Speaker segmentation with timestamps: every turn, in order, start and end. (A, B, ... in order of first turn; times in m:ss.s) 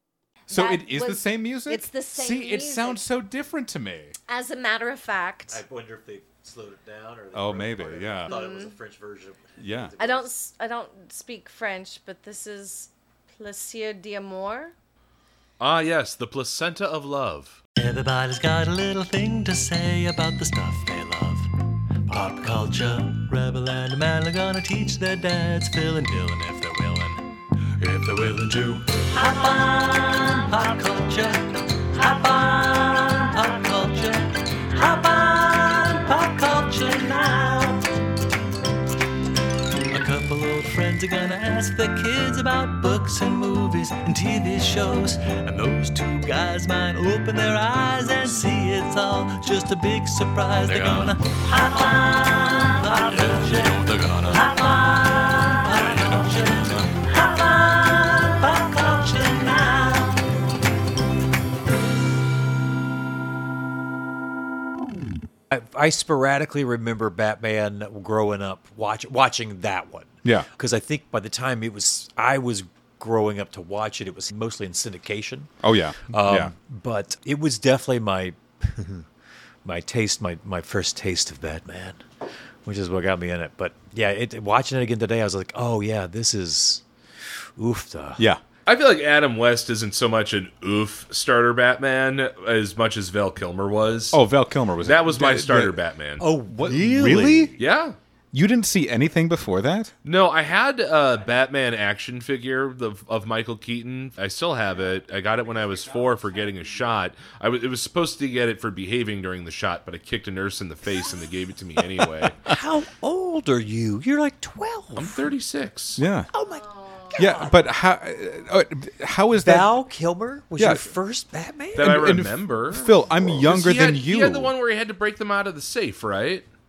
0:00.5-0:03.0 A
0:00.5-0:04.2 B
0:04.3-0:05.6 A
0:05.5-0:10.3 C
0:07.3-0:08.3 B
0:08.3-0:08.8 A
0:09.6-0:09.9 B
0:10.0-0:14.7 A
0:15.6-0:17.6 D
0:17.8-0:21.5 E
0:22.1-0:27.2 E
0:27.8-0:37.9 E
0:39.9-1:00.4 E
1:05.5-1:15.5 C
1:15.6-1:16.5 B
1:16.1-1:19.1 C
1:19.6-1:22.0 C
1:22.6-1:26.8 C
1:27.6-1:28.2 C
1:28.6-1:34.2 D
1:34.1-1:35.8 B
1:34.8-1:36.2 D
1:36.2-1:37.6 C
1:36.5-1:37.5 B
1:37.6-1:38.0 D
1:38.3-1:39.9 B
1:40.0-1:52.4 D
1:52.0-1:52.6 B
1:52.5-1:55.2 C
1:55.0-1:56.0 D
1:56.0-1:56.3 B
1:56.3-1:57.6 C
1:56.4-1:57.4 A
1:57.2-1:59.7 B
1:59.3-2:02.2 C
2:00.6-2:00.9 B
2:01.8-2:04.5 B
2:01.8-2:06.4 D